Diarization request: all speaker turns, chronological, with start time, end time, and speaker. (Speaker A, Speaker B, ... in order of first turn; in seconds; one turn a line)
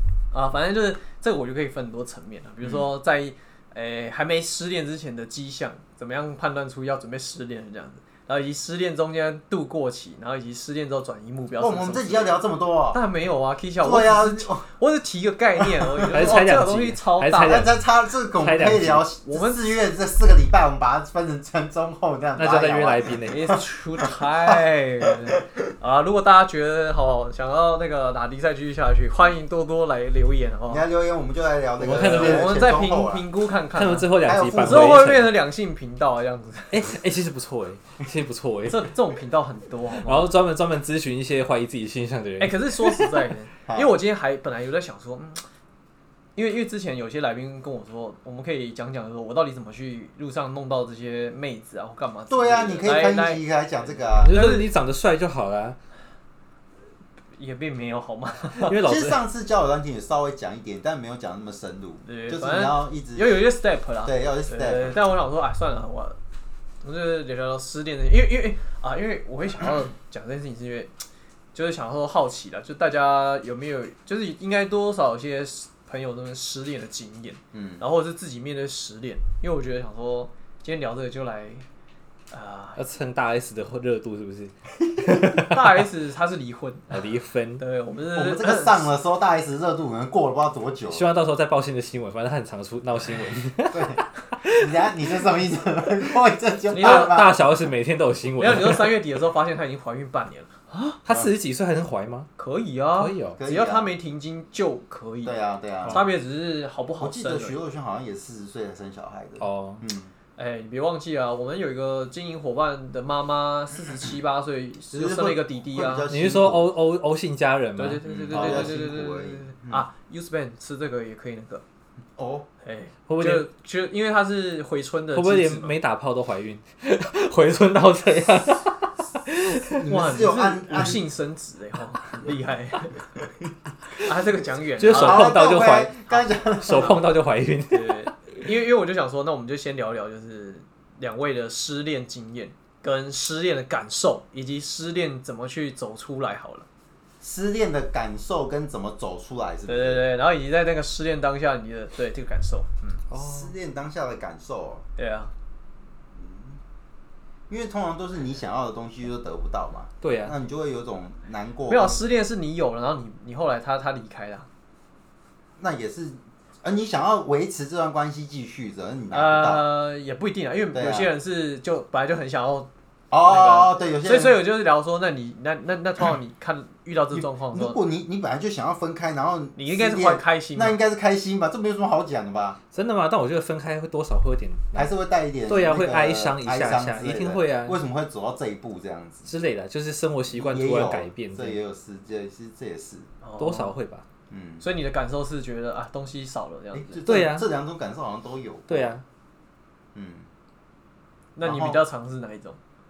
Speaker A: 0.3-12.4
Speaker B: 11.6-13.0
Speaker A: 12.9-17.7
Speaker B: 13.8-14.7
Speaker B: 15.6-16.4
Speaker C: 16.1-17.8
Speaker B: 17.4-24.6
Speaker C: 18.4-19.0
Speaker A: 19.2-19.7
Speaker C: 22.4-23.6
Speaker A: 23.3-30.8
Speaker B: 30.7-33.2
Speaker A: 31.8-36.9
Speaker C: 31.8-32.7
Speaker C: 33.7-35.3
Speaker B: 34.2-35.1
Speaker C: 36.7-38.9
Speaker A: 38.7-40.3
Speaker C: 40.0-43.1
Speaker A: 42.4-45.4
Speaker B: 43.7-43.9
Speaker A: 46.4-54.7
Speaker B: 52.3-54.4
Speaker C: 54.2-55.8
Speaker A: 57.4-58.8
Speaker C: 58.5-59.2
Speaker B: 58.8-63.4
Speaker A: 62.0-66.2
Speaker B: 64.0-65.0
Speaker A: 66.8-70.9
Speaker A: 71.5-81.6
Speaker B: 77.5-77.8
Speaker A: 82.3-82.8
Speaker C: 82.8-85.9
Speaker A: 85.3-86.9
Speaker C: 86.9-87.6
Speaker A: 87.6-88.9
Speaker B: 88.1-91.1
Speaker C: 90.9-94.7
Speaker B: 93.7-97.4
Speaker A: 96.7-97.1
Speaker C: 96.8-99.0
Speaker A: 98.4-101.0
Speaker C: 101.0-102.3
Speaker A: 102.4-105.3
Speaker C: 103.0-103.4
Speaker B: 103.3-103.9
Speaker B: 105.2-106.0
Speaker C: 105.8-106.1
Speaker A: 105.9-107.6
Speaker B: 107.0-110.1
Speaker C: 109.4-109.8
Speaker A: 110.4-116.1
Speaker B: 114.9-116.7
Speaker C: 116.1-118.8
Speaker A: 117.8-121.6
Speaker B: 118.0-119.9
Speaker B: 122.2-122.5
Speaker A: 122.6-125.8
Speaker C: 123.1-123.5
Speaker C: 125.1-129.9
Speaker B: 129.7-131.0
Speaker A: 129.8-133.0
Speaker A: 134.0-135.4
Speaker C: 134.8-138.2
Speaker B: 134.9-137.0
Speaker A: 137.7-146.7
Speaker B: 147.2-150.0
Speaker A: 149.7-152.9
Speaker B: 153.1-154.8
Speaker C: 153.1-153.5
Speaker A: 155.0-155.3
Speaker B: 156.2-156.5
Speaker B: 157.5-162.0
Speaker C: 160.0-160.3
Speaker A: 161.7-164.5
Speaker B: 165.6-169.6
Speaker A: 169.1-172.7
Speaker B: 170.7-171.1
Speaker B: 173.1-174.4
Speaker A: 173.2-177.8
Speaker B: 177.1-182.6
Speaker A: 179.6-180.8
Speaker C: 182.7-184.9
Speaker B: 184.7-189.3
Speaker C: 185.5-187.8
Speaker C: 189.3-191.6
Speaker B: 190.3-193.1
Speaker A: 193.2-193.7
Speaker C: 193.4-194.0
Speaker B: 194.3-194.6
Speaker A: 194.6-196.9
Speaker B: 196.7-198.9
Speaker C: 197.1-197.5
Speaker C: 198.7-199.0
Speaker B: 199.9-200.2
Speaker A: 201.3-202.6
Speaker B: 201.4-201.8